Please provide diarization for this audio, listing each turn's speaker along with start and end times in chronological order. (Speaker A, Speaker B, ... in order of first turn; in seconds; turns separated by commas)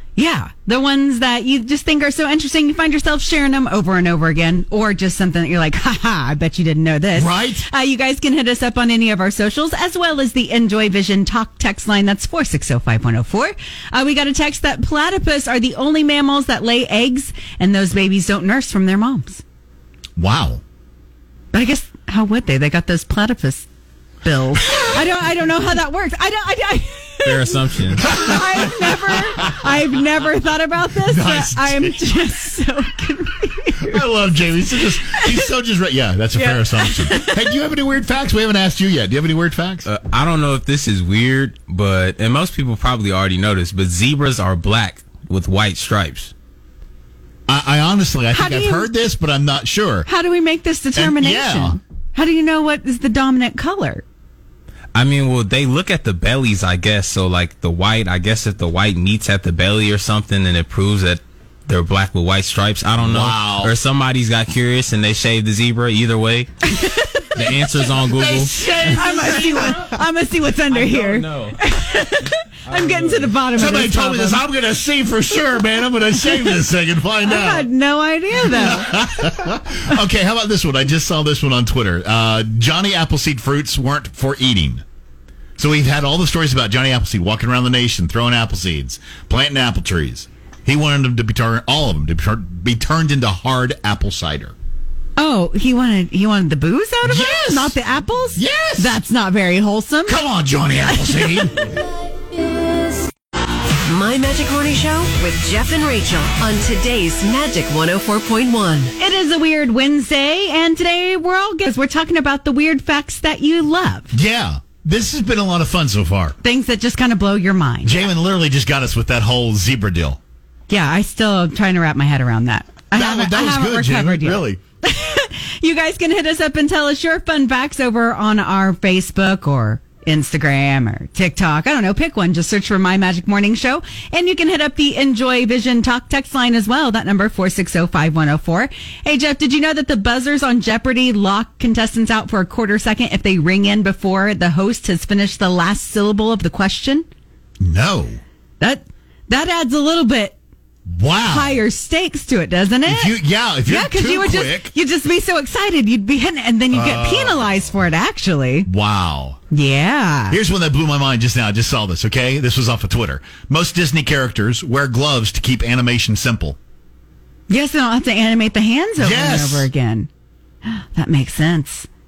Speaker A: 0.2-19.4, Speaker B: 7.1-7.7, Speaker B: 20.2-20.6, Speaker A: 21.5-23.7, Speaker A: 24.2-34.0, Speaker C: 27.2-28.1, Speaker B: 28.1-29.7, Speaker B: 31.0-32.1, Speaker B: 33.8-39.9, Speaker A: 35.1-35.3, Speaker A: 36.4-37.4, Speaker C: 39.9-46.3, Speaker B: 47.5-50.1, Speaker A: 48.3-48.9, Speaker A: 50.1-54.0, Speaker B: 51.0-51.8, Speaker C: 55.0-66.5, Speaker B: 63.0-63.8, Speaker A: 66.7-67.3, Speaker C: 67.3-69.9, Speaker B: 67.4-69.8, Speaker A: 68.6-74.4, Speaker C: 70.7-71.6, Speaker C: 72.7-73.4, Speaker B: 73.5-77.7, Speaker A: 77.3-79.0, Speaker B: 78.4-84.8, Speaker B: 85.6-94.5, Speaker A: 95.2-100.2, Speaker B: 97.0-97.8, Speaker B: 98.3-99.0, Speaker B: 100.1-101.6, Speaker A: 100.9-101.4, Speaker D: 103.8-108.9, Speaker A: 109.0-114.1, Speaker B: 114.1-116.4, Speaker A: 116.4-118.0, Speaker B: 117.8-120.2, Speaker A: 120.7-147.1, Speaker B: 122.9-124.6, Speaker B: 147.6-148.2, Speaker A: 148.6-150.4, Speaker B: 150.9-151.6, Speaker A: 151.2-153.1, Speaker B: 152.8-154.7, Speaker A: 153.7-158.7, Speaker B: 156.7-157.8, Speaker B: 158.7-159.4, Speaker A: 159.5-160.4, Speaker B: 160.3-166.6, Speaker A: 167.5-170.1, Speaker B: 169.0-169.7, Speaker A: 170.7-171.9